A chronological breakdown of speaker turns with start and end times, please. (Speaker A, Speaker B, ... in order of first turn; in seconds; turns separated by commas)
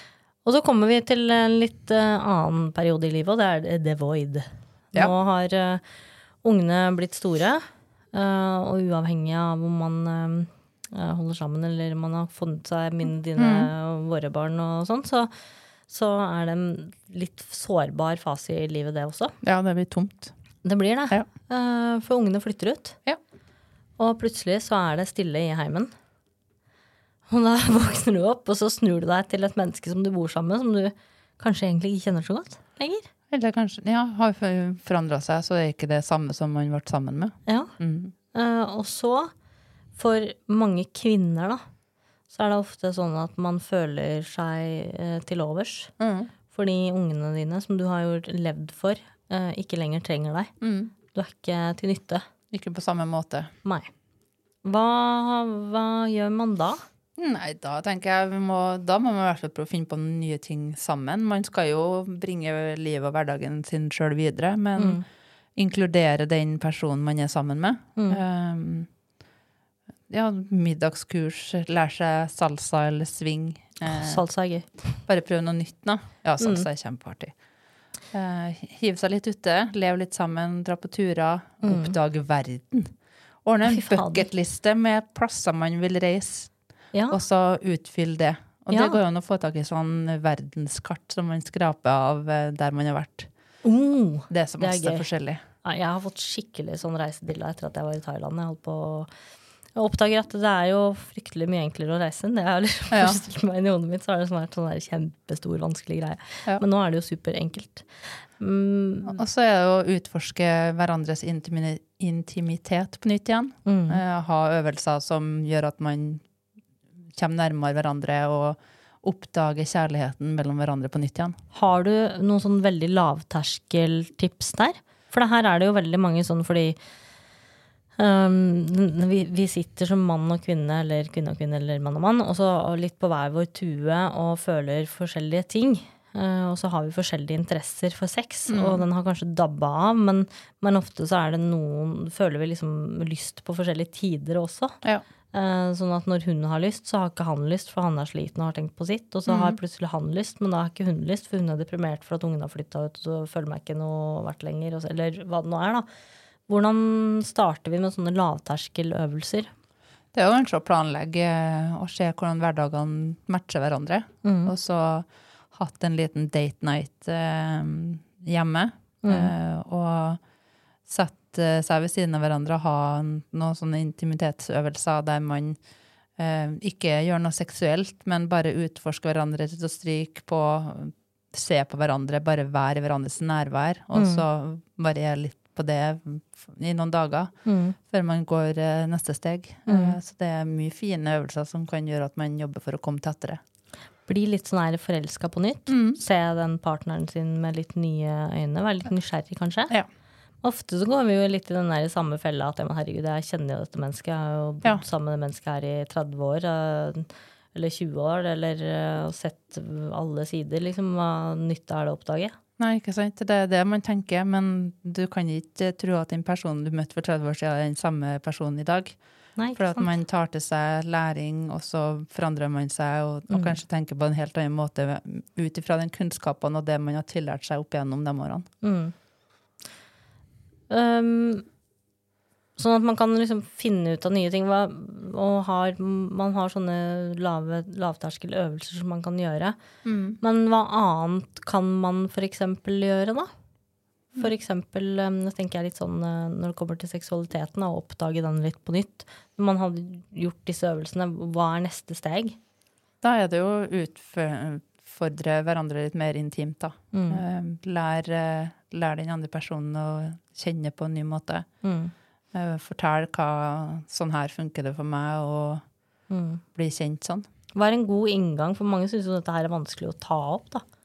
Speaker A: 0.5-5.8, Speaker A: 6.4-15.3, Speaker B: 13.4-13.7, Speaker A: 15.9-19.4, Speaker B: 19.4-20.3, Speaker A: 20.6-23.0, Speaker A: 24.0-25.9, Speaker A: 27.3-33.1, Speaker B: 33.3-38.1, Speaker A: 37.5-37.7, Speaker A: 38.3-39.3, Speaker A: 40.0-41.6, Speaker A: 42.3-45.9, Speaker B: 46.0-46.3, Speaker A: 46.5-50.5, Speaker B: 50.6-50.9, Speaker A: 51.1-52.2, Speaker B: 52.5-53.5, Speaker A: 54.6-56.8, Speaker B: 57.2-65.0, Speaker A: 64.8-65.0, Speaker B: 65.6-68.9, Speaker B: 70.1-74.2, Speaker A: 73.9-74.7, Speaker B: 75.0-77.3, Speaker A: 76.4-76.7, Speaker B: 78.1-86.5, Speaker A: 81.6-81.9, Speaker A: 83.7-84.3, Speaker A: 86.9-87.2, Speaker B: 87.1-93.3, Speaker A: 88.7-89.0, Speaker A: 93.6-95.1, Speaker B: 94.3-95.4, Speaker A: 95.6-99.1, Speaker A: 99.8-109.2, Speaker B: 102.9-103.2, Speaker B: 109.1-116.2, Speaker A: 113.7-114.0, Speaker B: 117.1-121.4, Speaker A: 121.5-126.8, Speaker A: 128.0-144.8, Speaker B: 138.5-138.8, Speaker A: 145.3-155.9, Speaker B: 149.3-149.6, Speaker A: 156.5-159.5, Speaker B: 160.1-170.2, Speaker A: 164.2-164.5, Speaker A: 169.0-169.3, Speaker B: 170.9-175.6, Speaker B: 176.2-193.4, Speaker A: 183.9-184.2, Speaker A: 187.4-187.8, Speaker A: 189.7-190.0, Speaker A: 194.1-199.7, Speaker B: 195.7-196.0, Speaker A: 200.4-212.4, Speaker B: 212.6-219.0, Speaker A: 219.4-219.9, Speaker B: 219.5-228.5, Speaker A: 223.3-223.6, Speaker A: 228.6-228.9, Speaker A: 230.7-231.4, Speaker A: 232.6-239.6, Speaker B: 239.8-240.2, Speaker A: 240.2-243.3, Speaker A: 244.2-252.4, Speaker B: 253.0-261.5, Speaker A: 256.9-257.2, Speaker A: 261.6-261.9, Speaker B: 262.3-265.6, Speaker A: 266.1-266.4, Speaker B: 266.5-267.3, Speaker A: 267.6-270.6